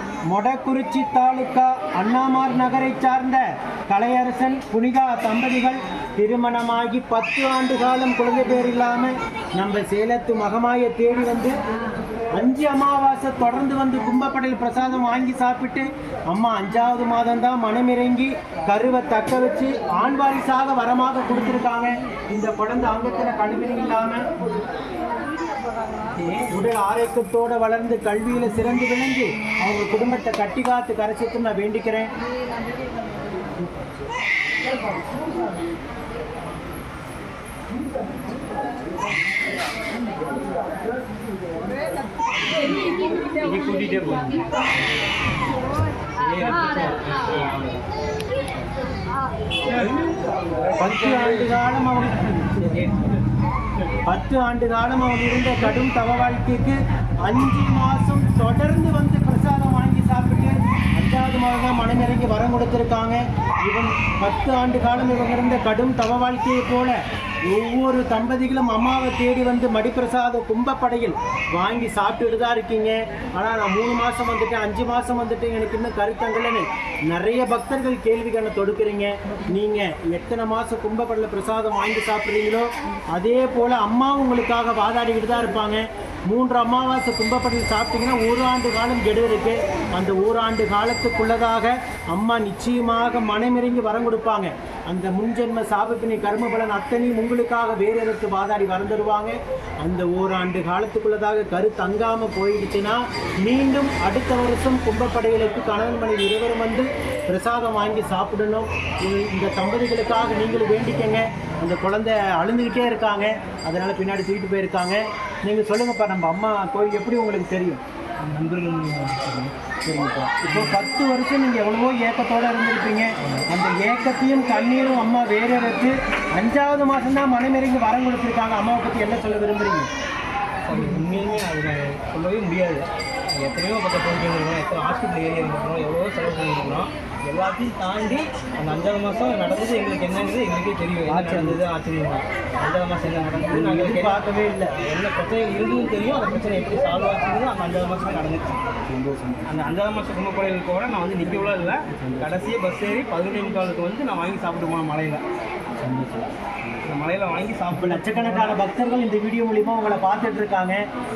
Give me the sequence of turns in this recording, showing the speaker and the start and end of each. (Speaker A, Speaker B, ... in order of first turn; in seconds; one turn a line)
Speaker A: 0.3-11.6
Speaker A: 12.3-24.3
Speaker A: 26.4-32.1
Speaker B: 43.1-44.6
Speaker B: 46.1-47.9
Speaker B: 49.7-50.0
Speaker A: 50.8-52.8
Speaker B: 52.4-53.2
Speaker A: 54.0-117.8
Speaker B: 118.2-119.5
Speaker A: 119.9-129.9
Speaker B: 120.5-120.8
Speaker B: 130.6-148.6
Speaker A: 141.1-141.6
Speaker A: 143.5-144.7
Speaker A: 148.9-149.5
Speaker B: 149.4-155.2
Speaker B: 156.8-158.6
Speaker A: 157.7-160.8